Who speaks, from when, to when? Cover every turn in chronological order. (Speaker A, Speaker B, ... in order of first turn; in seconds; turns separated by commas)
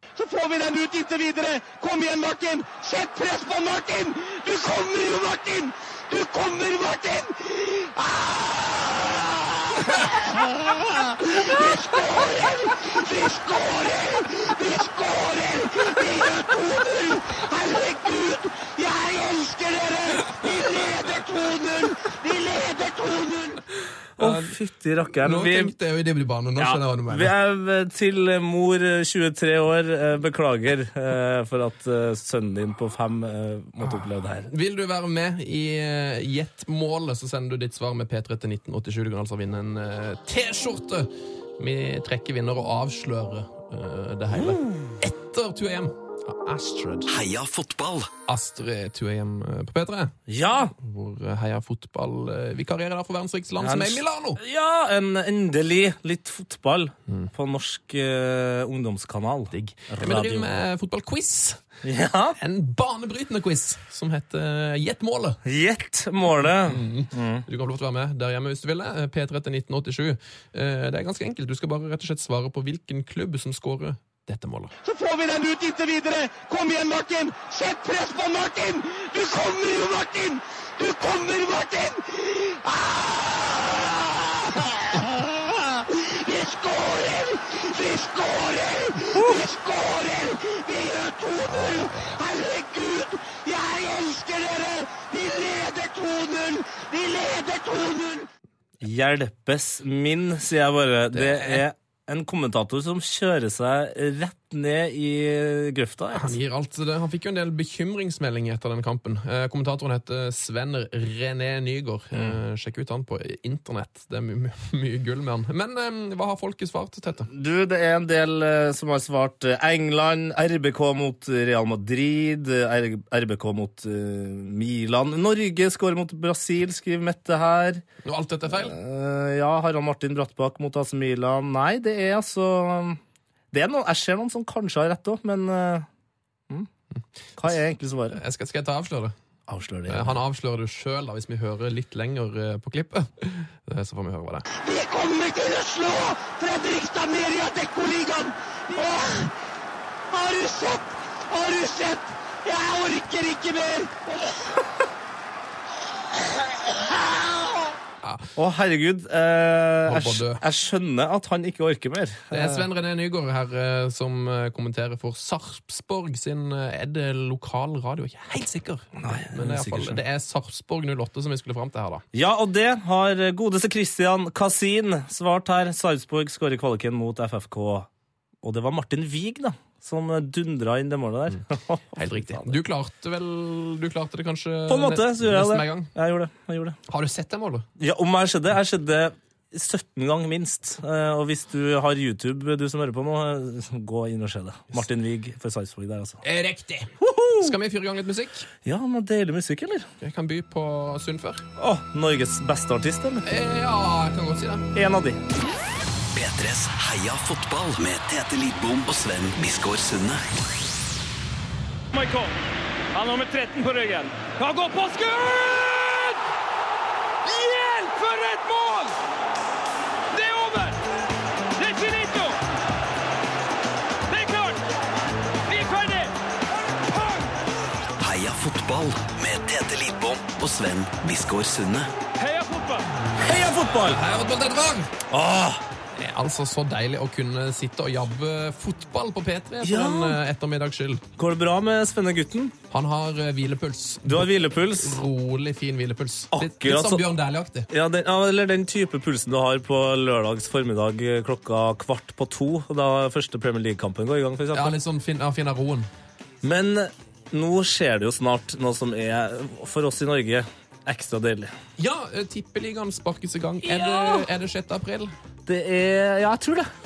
Speaker A: 0.2-23.6, Speaker B: 24.2-24.6, Speaker C: 24.2-25.7, Speaker B: 25.2-27.3, Speaker C: 26.6-34.5, Speaker B: 34.5-47.1, Speaker C: 44.3-45.0, Speaker D: 47.1-48.1, Speaker B: 48.3-50.2, Speaker C: 50.3-50.7, Speaker B: 50.7-54.4, Speaker C: 53.6-60.6, Speaker B: 59.5-61.6, Speaker C: 61.8-62.4, Speaker B: 62.4-65.4, Speaker C: 65.5-67.5, Speaker B: 66.6-74.7, Speaker A: 74.8-98.3, Speaker C: 89.1-89.4, Speaker B: 91.5-92.2, Speaker C: 98.8-106.4, Speaker B: 101.1-101.6, Speaker B: 106.1-117.3, Speaker C: 117.3-127.8, Speaker B: 128.0-128.8, Speaker C: 128.5-133.0, Speaker C: 133.5-135.9, Speaker C: 137.4-138.2, Speaker B: 138.1-139.1, Speaker C: 139.5-140.2, Speaker B: 139.9-144.4, Speaker A: 144.6-149.3, Speaker A: 150.1-154.3, Speaker C: 158.4-162.7, Speaker B: 159.9-160.4, Speaker B: 162.3-172.1, Speaker C: 169.0-170.0, Speaker C: 172.1-177.9, Speaker C: 178.4-182.6, Speaker B: 182.0-185.9, Speaker C: 184.7-186.8, Speaker B: 186.9-187.7, Speaker C: 187.8-196.2, Speaker B: 196.2-198.5, Speaker C: 197.0-197.6, Speaker C: 198.7-199.9, Speaker B: 200.0-201.4, Speaker C: 201.6-203.3, Speaker B: 203.2-204.7, Speaker C: 204.7-205.2, Speaker D: 206.1-210.2, Speaker E: 211.9-212.3, Speaker E: 212.9-216.2, Speaker E: 217.2-218.9, Speaker E: 220.1-220.8, Speaker E: 221.6-222.4, Speaker E: 224.1-224.6, Speaker E: 225.5-226.1, Speaker E: 226.7-227.3, Speaker D: 228.0-231.9, Speaker E: 232.2-232.9, Speaker B: 233.1-234.9, Speaker C: 233.2-234.0, Speaker C: 235.1-235.6, Speaker B: 236.0-241.0, Speaker C: 239.6-240.2, Speaker C: 241.2-242.6, Speaker B: 242.7-247.7, Speaker C: 244.1-245.0, Speaker C: 246.3-247.1, Speaker C: 247.7-254.8, Speaker B: 254.5-255.9, Speaker C: 256.4-261.5, Speaker B: 261.8-265.1, Speaker C: 263.6-264.3, Speaker C: 265.5-266.7